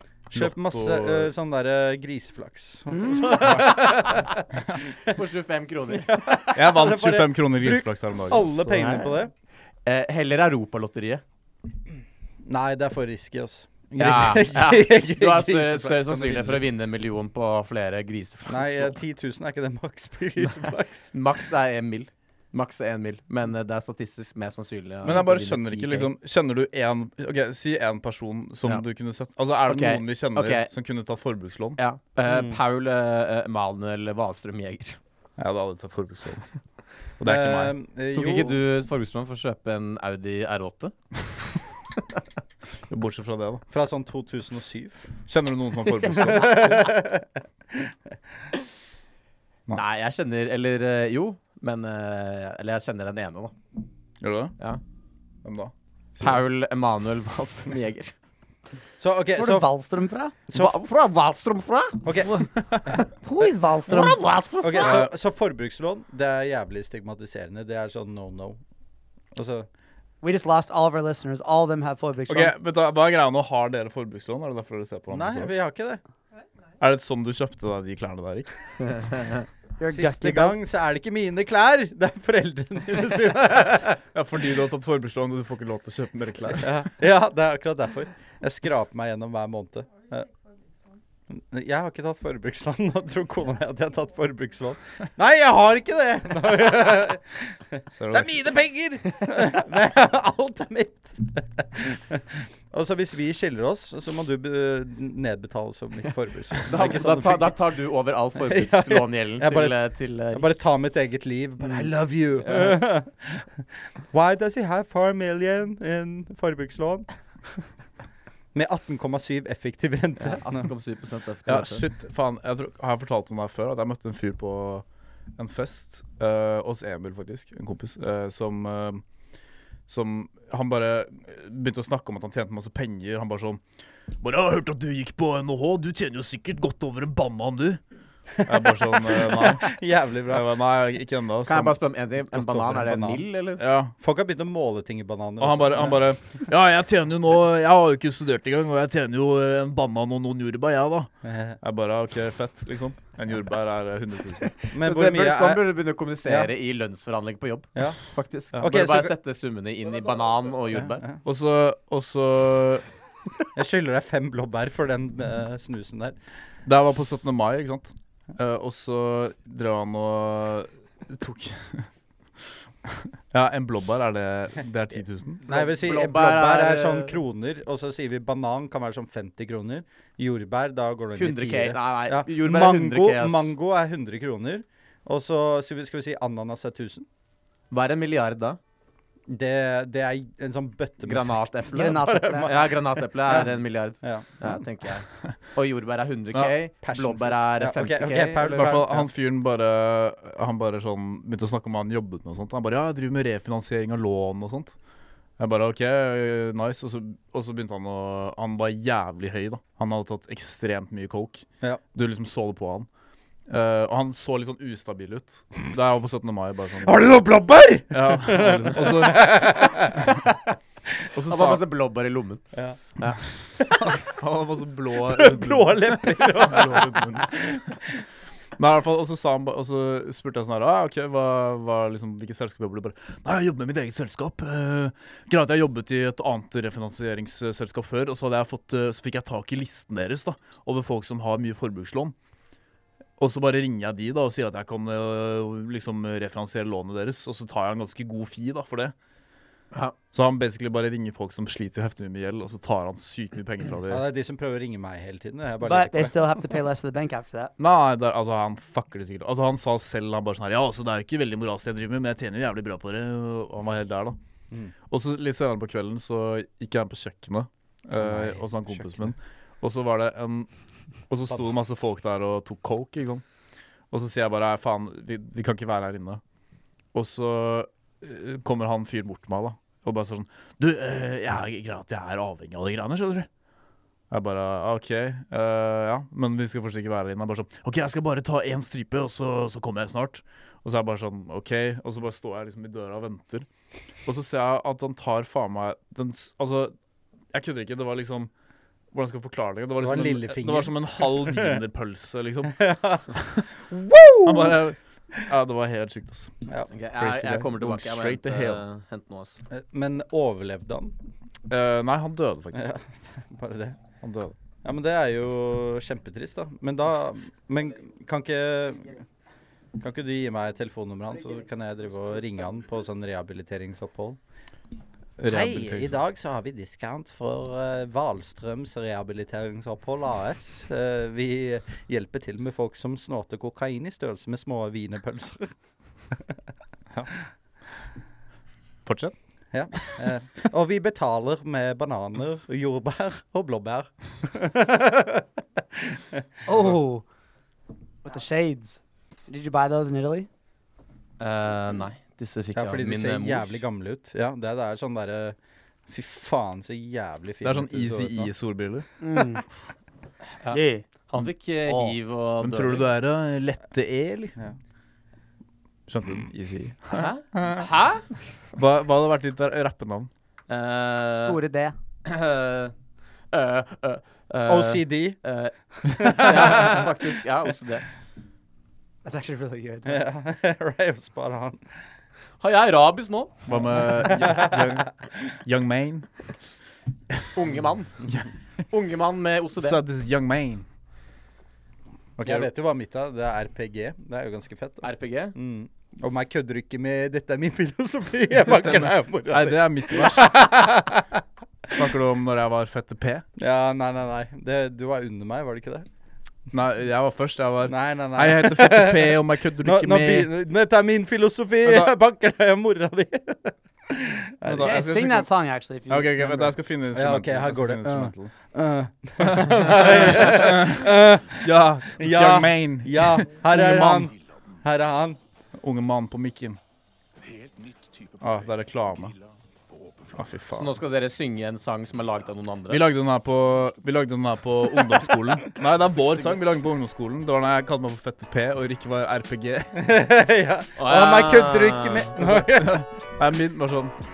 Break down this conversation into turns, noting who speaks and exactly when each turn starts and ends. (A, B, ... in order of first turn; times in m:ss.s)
0:00.3-0:01.3 A
0:00.3-0:04.4 B
0:03.4-0:03.7 A
0:05.1-0:06.1 C
0:05.9-0:09.3 B
0:06.5-0:08.7 A
0:08.6-0:09.2 C
0:09.8-0:11.2 C
0:12.4-0:16.6 B
0:14.0-0:19.0 C
0:18.5-0:21.1 B
0:21.1-0:26.1 C
0:25.0-0:31.8 A
0:29.7-0:30.7 C
0:31.8-0:35.0 C
0:32.3-0:32.6 B
0:35.4-0:36.6 A
0:37.2-0:37.7 A
0:37.2-0:38.6 B
0:38.1-0:40.9 C
0:42.9-0:43.6 A
0:43.7-0:45.1 B
0:45.3-0:46.9 A
0:46.0-0:47.2 B
0:49.7-0:53.5 C
0:54.2-0:54.5 A
0:55.4-0:56.4 A
0:56.2-0:58.1 C
0:59.0-0:59.7 B
0:59.3-1:00.3 D
1:00.5-1:02.3 C
1:00.5-1:00.8 B
1:02.0-1:03.0 B
1:03.2-1:04.2 D
1:03.9-1:05.0 C
1:04.6-1:08.6 B
1:04.8-1:05.1 A
1:09.3-1:09.7 B
1:10.2-1:12.5 D
1:12.3-1:15.5 A
1:15.1-1:16.0 B
1:16.8-1:18.5 A
1:18.8-1:19.4 C
1:19.8-1:20.6 D
1:19.9-1:24.0 B
1:24.1-1:26.7 A
1:26.6-1:30.3 B
1:31.3-1:47.6 B
1:37.9-1:38.5 A
1:46.7-1:50.5 C
1:48.4-1:49.8 B
1:50.3-1:53.5 B
1:52.4-1:52.8 C
1:54.1-1:57.1 B
1:58.5-2:00.7 B
2:00.2-2:01.8 C
2:01.5-2:04.8 A
2:05.4-2:09.0 A
2:09.9-2:13.6 A
2:14.2-2:17.8 A
2:18.4-2:19.8 A
2:18.5-2:20.5 B
2:20.3-2:21.8 A
2:21.4-2:23.6 C
2:22.4-2:22.8 A
2:22.8-2:23.2 B
2:23.6-2:23.9 A
2:24.0-2:26.0 B
2:25.4-2:34.6 A
2:31.2-2:31.6 B
2:34.7-2:35.7 B
2:34.8-2:41.0 C
2:36.2-2:36.5 B
2:38.5-2:39.2 B
2:40.7-2:41.2 B
2:41.2-2:42.8 A
2:43.5-2:46.2 B
2:46.6-2:51.9 A
2:53.3-2:55.4 A
2:55.4-2:57.2 C
2:55.4-3:07.1 B
3:01.1-3:03.6 C
3:07.7-3:08.6 C
3:09.3-3:13.5 B
3:11.0-3:18.8 C
3:11.7-3:12.5 D
3:14.0-3:14.6 B
3:16.8-3:19.1 B
3:18.5-3:24.7 A
3:25.4-3:32.9 A
3:33.5-3:37.0 A
3:36.8-3:40.4 B
3:37.9-3:40.0 A
3:41.1-3:41.6 A
3:41.3-3:42.4 C
3:43.6-3:44.0 B
3:43.9-3:47.5 A
3:45.2-3:47.7 B
3:48.6-4:02.1 A
4:03.2-4:08.9 A
4:10.1-4:14.0 A
4:13.9-4:16.2 B
4:15.6-4:17.5 D
4:17.6-4:24.2 A
4:24.9-4:30.5 A
4:28.0-4:29.1 B
4:31.1-4:33.2 A
4:33.9-4:36.2 A
4:36.9-4:43.3 A
4:44.1-4:53.5 A
4:54.0-4:56.7 A
4:57.3-4:58.3 A
4:58.9-5:02.7 A
4:59.8-5:01.6 B
5:02.5-5:04.6 B
5:04.2-5:06.3 A
5:06.7-5:09.4 C
5:07.0-5:08.6 A
5:09.5-5:10.9 B
5:11.5-5:12.7 A
5:12.6-5:13.8 B
5:14.0-5:14.3 A
5:14.6-5:19.0 B
5:19.8-5:24.2 B
5:25.2-5:26.0 A
5:25.3-5:35.5 B
5:38.8-5:39.1 A
5:39.5-5:45.3 B
5:45.9-5:46.2 B
5:46.4-5:47.0 D
5:48.0-5:50.3 D
5:51.2-5:53.6 C
5:52.5-5:55.4 B
5:55.9-5:58.3 B
5:57.4-5:58.8 A
5:59.0-5:59.4 D
6:00.4-6:02.9 C
6:00.5-6:00.8 D
6:01.1-6:04.3 A
6:05.9-6:07.6 A
6:06.9-6:08.1 C
6:08.6-6:10.1 A
6:10.5-6:11.4 C
6:11.1-6:11.7 D
6:12.0-6:12.7 C
6:13.3-6:17.8 C
6:14.4-6:15.2 B
6:15.9-6:16.9 B
6:19.0-6:20.0 D
6:19.8-6:21.6 B
6:22.4-6:23.4 C
6:23.5-6:26.1 A
6:24.2-6:24.5 B
6:27.3-6:27.9 C
6:28.7-6:29.8 C
6:29.6-6:30.6 A
6:32.2-6:32.5 A
6:32.2-6:41.0 B
6:34.8-6:35.3 C
6:38.4-6:40.5 A
6:41.7-6:43.2 A
6:43.4-6:45.9 B
6:46.5-6:50.3 A
6:47.6-6:54.7 B
6:51.6-6:51.9 A
6:54.4-6:55.3 A
6:54.6-6:56.2 D
6:55.9-6:58.3 A
6:56.2-7:01.5 B
6:59.2-7:04.1 A
7:02.0-7:05.2 B
7:05.6-7:06.6 A
7:08.2-7:09.2 A
7:10.1-7:10.8 A
7:10.5-7:12.9 C
7:12.7-7:20.0 A
7:15.9-7:16.4 C
7:19.8-7:22.9 B
7:20.8-7:22.2 C
7:22.2-7:23.9 A